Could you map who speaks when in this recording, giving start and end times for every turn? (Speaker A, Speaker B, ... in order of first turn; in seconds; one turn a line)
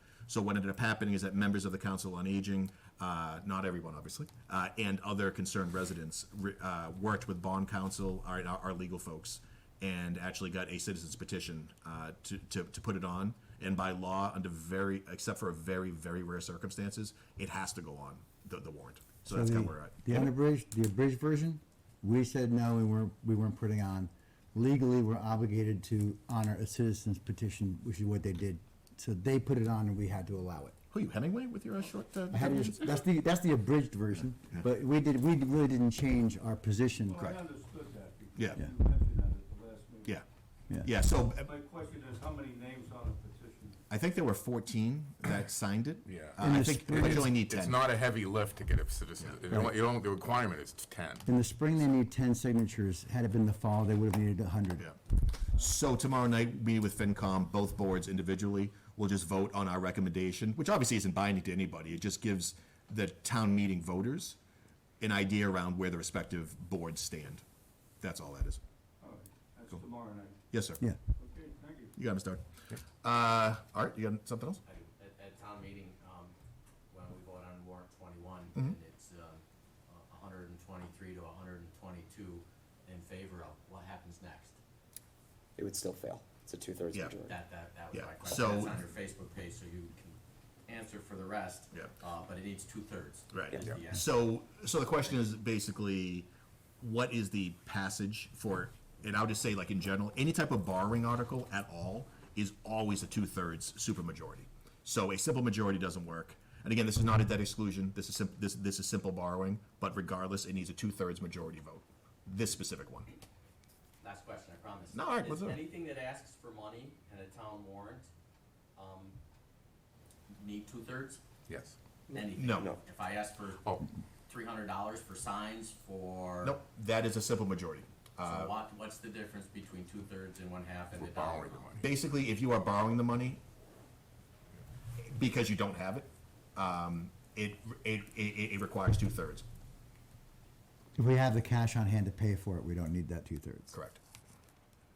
Speaker A: 0.3-20.3
Speaker B: 19.3-30.8
Speaker A: 30.9-33.0
Speaker B: 32.3-37.2
Speaker C: 37.1-40.2
Speaker A: 37.2-37.4
Speaker A: 38.4-38.6
Speaker A: 40.8-41.5
Speaker C: 41.3-43.8
Speaker A: 43.9-47.8
Speaker D: 46.0-46.4
Speaker B: 46.4-47.4
Speaker D: 47.4-51.3
Speaker B: 51.2-54.9
Speaker A: 55.5-64.4
Speaker A: 65.0-67.4
Speaker A: 68.0-68.6
Speaker C: 69.0-70.4
Speaker A: 70.5-70.8
Speaker C: 71.2-71.9
Speaker A: 72.0-74.6
Speaker E: 74.6-76.3
Speaker E: 76.9-84.6
Speaker F: 85.6-87.3
Speaker E: 87.3-94.2
Speaker A: 87.9-88.8
Speaker A: 93.3-96.3
Speaker A: 96.8-113.1
Speaker E: 114.0-118.1
Speaker A: 114.9-115.6
Speaker E: 118.8-119.2
Speaker E: 120.3-121.2
Speaker D: 121.5-121.8
Speaker F: 122.1-122.8
Speaker E: 122.1-126.6
Speaker A: 122.3-122.7
Speaker A: 126.4-128.5
Speaker E: 128.2-131.7
Speaker D: 130.9-131.9
Speaker A: 131.8-133.4
Speaker A: 135.0-139.4
Speaker B: 141.0-143.7
Speaker A: 143.7-144.0